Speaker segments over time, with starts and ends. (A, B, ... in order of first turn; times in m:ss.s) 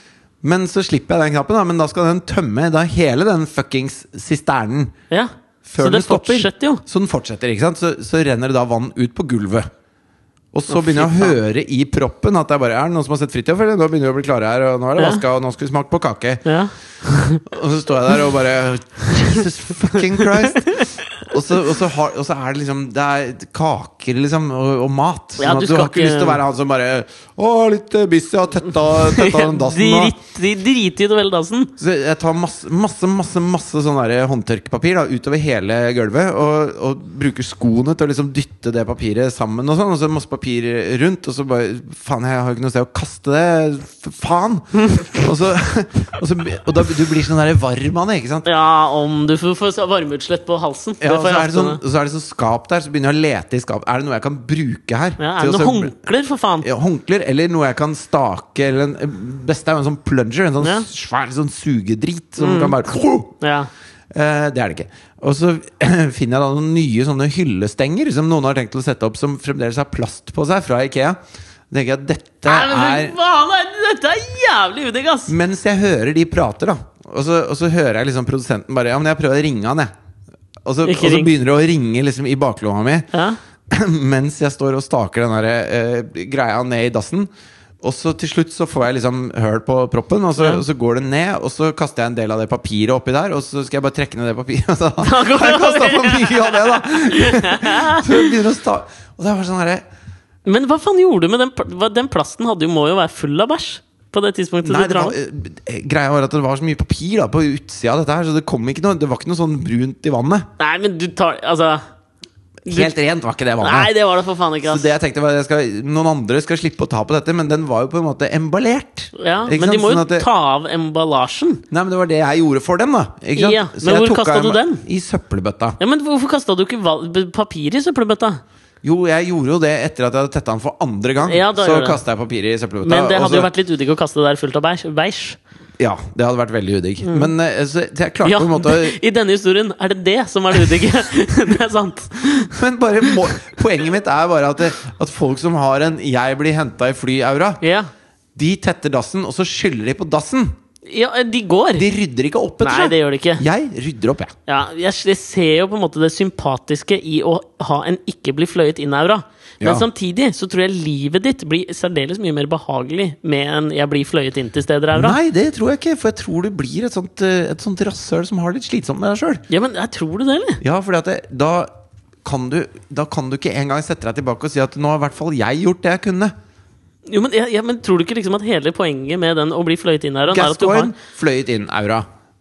0:00.4-0:04.9 A
0:05.1-0:06.8 B
0:05.6-0:09.7 A
0:10.5-0:16.4 A
0:10.7-0:11.4 B
0:15.0-0:15.2 B
0:16.4-0:17.4 B
0:17.5-0:30.2 A
0:20.0-0:21.1 B
0:25.4-0:26.4 B
0:29.1-0:31.7 B
0:31.8-0:48.5 A
0:48.4-0:51.8 B
0:51.0-0:55.9 A
0:55.2-0:56.7 B
0:56.6-1:03.4 A
1:00.6-1:00.9 B
1:02.4-1:02.8 B
1:03.4-1:03.7 B
1:04.1-1:11.2 A
1:11.7-1:13.2 A
1:12.5-1:15.3 B
1:15.3-1:19.9 A
1:20.6-1:23.1 A
1:20.8-1:21.3 B
1:23.1-1:23.4 B
1:23.7-1:27.3 A
1:27.8-1:39.8 A
1:35.0-1:38.3 B
1:40.5-1:45.2 B
1:44.6-1:50.5 A
1:50.6-1:51.8 B
1:52.7-1:52.9 B
1:52.7-1:53.9 A
1:53.6-1:54.9 B
1:54.6-2:00.3 A
1:59.2-2:01.6 B
2:01.7-2:05.8 A
2:03.4-2:04.8 B
2:05.8-2:08.4 B
2:08.8-2:13.5 A
2:11.2-2:12.0 B
2:12.8-2:15.4 B
2:15.8-2:19.0 A
2:17.0-2:17.3 B
2:18.2-2:22.5 B
2:22.3-2:27.6 A
2:27.6-2:27.9 B
2:28.4-2:30.6 A
2:30.9-2:31.9 B
2:31.8-2:34.3 A
2:32.6-2:33.4 B
2:34.5-2:45.2 B
2:39.6-2:39.9 A
2:44.9-2:49.4 A
2:49.5-2:50.6 B
2:50.6-2:51.7 A
2:52.2-2:56.3 A
2:57.1-3:00.9 B
3:00.3-3:02.1 A